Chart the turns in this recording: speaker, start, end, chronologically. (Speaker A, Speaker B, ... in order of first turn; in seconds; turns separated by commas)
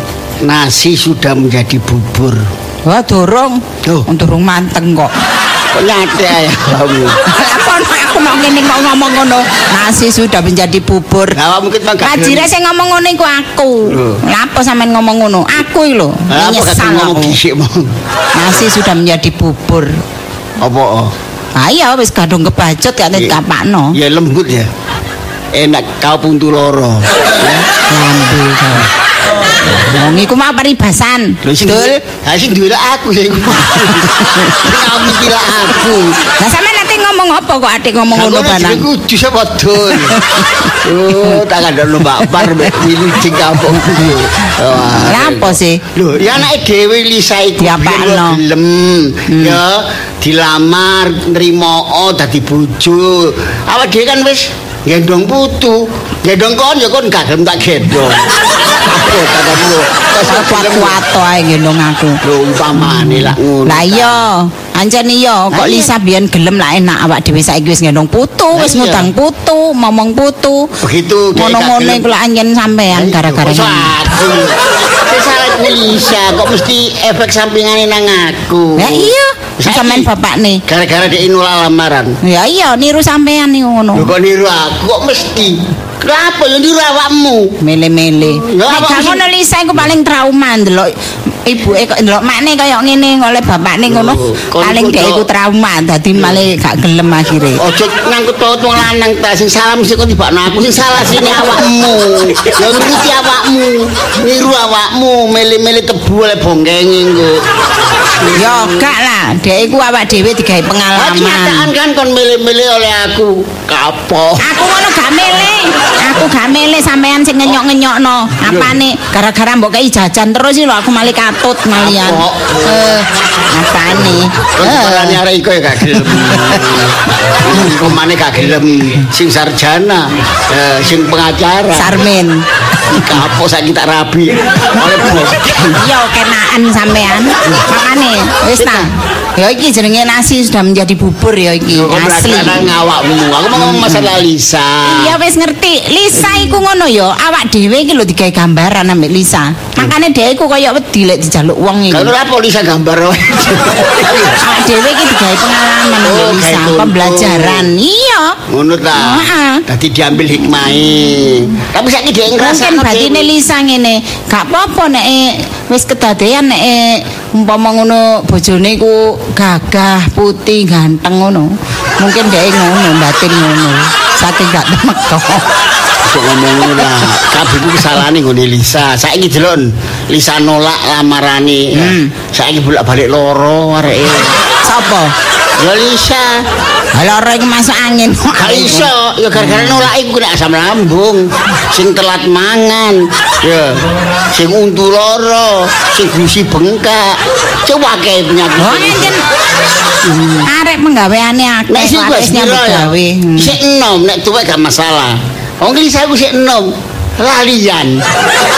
Speaker A: 0.4-2.4, Speaker B: 2.9-5.1, Speaker A: 5.7-7.2, Speaker B: 7.3-11.4, Speaker A: 11.3-12.5, Speaker B: 12.0-17.4, Speaker A: 13.9-14.2, Speaker A: 16.3-17.9, Speaker B: 18.3-19.9, Speaker A: 20.6-21.1, Speaker B: 21.6-24.0, Speaker A: 23.9-24.7, Speaker A: 25.5-27.7, Speaker B: 27.9-28.9, Speaker B: 29.5-32.0, Speaker A: 31.4-36.2, Speaker B: 34.2-34.5, Speaker B: 36.4-38.8, Speaker A: 38.1-40.2, Speaker B: 39.9-40.7, Speaker A: 40.8-61.0, Speaker B: 43.8-44.1, Speaker B: 44.9-45.8, Speaker B: 47.6-48.4, Speaker B: 49.3-49.6, Speaker B: 60.2-62.2, Speaker A: 62.2-64.2, Speaker B: 62.8-70.8, Speaker A: 65.5-65.9, Speaker A: 68.5-69.1, Speaker A: 70.8-72.0, Speaker B: 71.3-73.9, Speaker A: 72.9-80.1, Speaker B: 78.8-80.6, Speaker A: 80.7-82.2, Speaker B: 82.2-84.1, Speaker A: 83.9-87.5, Speaker B: 87.6-90.9, Speaker A: 88.3-89.2, Speaker B: 91.4-97.6, Speaker A: 93.9-95.2, Speaker A: 97.6-107.4, Speaker A: 108.2-108.8, Speaker B: 108.3-111.7, Speaker A: 111.0-114.4, Speaker B: 114.4-125.2, Speaker A: 118.4-118.7, Speaker A: 121.8-122.9, Speaker A: 124.1-132.0, Speaker B: 126.1-126.6, Speaker B: 131.7-132.4, Speaker A: 132.9-135.8, Speaker B: 135.8-142.7, Speaker A: 138.6-138.9, Speaker A: 141.8-145.1, Speaker B: 143.5-144.1, Speaker B: 144.8-152.1, Speaker A: 151.9-154.4, Speaker B: 154.4-158.3, Speaker A: 156.0-157.7, Speaker A: 158.5-163.3, Speaker B: 158.9-159.6, Speaker B: 162.4-175.4, Speaker A: 176.1-184.3, Speaker B: 181.8-182.1, Speaker B: 184.6-185.1, Speaker A: 185.6-186.4, Speaker B: 186.9-189.9, Speaker A: 188.3-193.8, Speaker A: 194.3-199.1, Speaker B: 198.6-199.2, Speaker A: 200.1-200.4, Speaker B: 200.4-203.6, Speaker A: 201.7-208.0